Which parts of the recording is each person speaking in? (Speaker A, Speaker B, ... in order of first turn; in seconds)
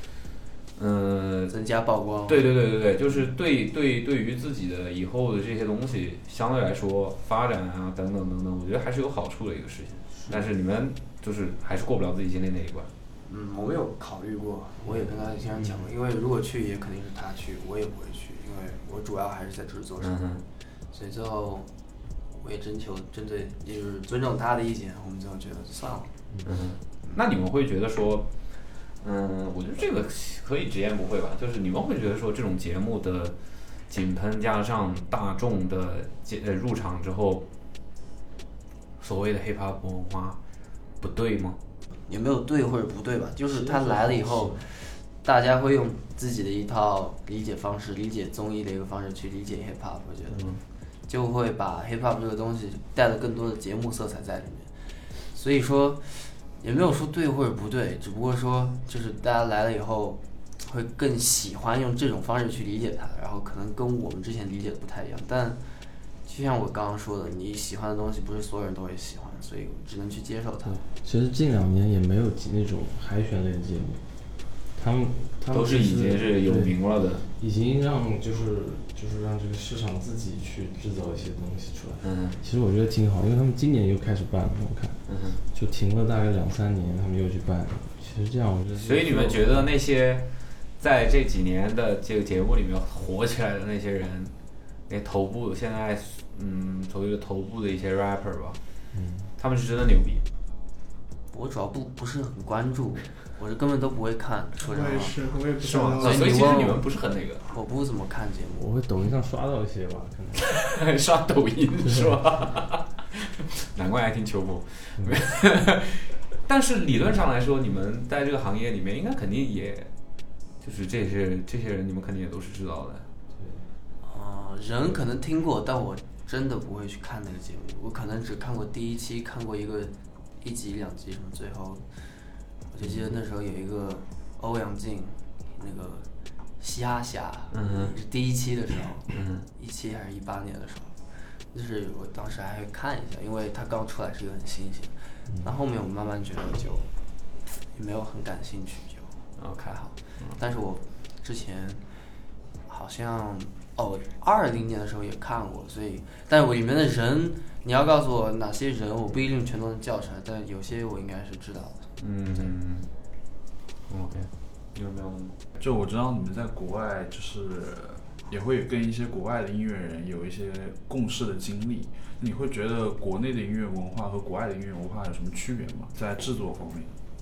Speaker A: 0.8-1.6, 2.3-12.9, 20.0-20.4, 26.4-28.3, 29.0-33.4, 33.9-37.5, 39.0-40.4, 41.0-41.6, 50.3-50.6, 75.5-77.2, 82.0-82.4, 85.1-85.4, 88.8-94.3, 94.9-98.6, 99.4-100.2, 105.6-107.4, 110.4-119.9, 120.6-123.1, 137.5-137.9, 139.1-139.5, 149.4-150.4, 162.0-162.9, 163.9-165.4
Speaker B: 1.5-2.5, 13.3-20.2, 20.9-21.7, 22.3-26.1, 42.1-50.4, 51.1-65.6, 66.2-70.8, 101.3-105.2, 106.0-106.8, 107.5-108.7, 124.0-131.8, 132.7-136.1, 136.6-141.0, 141.5-146.9, 147.6-149.1, 149.6-151.8, 152.7-161.8
Speaker C: 10.2-10.5, 43.5-44.6, 70.7-74.0, 74.7-89.7, 98.9-99.3, 108.6-110.6, 111.8-112.2, 123.3-123.7
Speaker D: 104.6-106.6
Speaker E: 165.6-176.9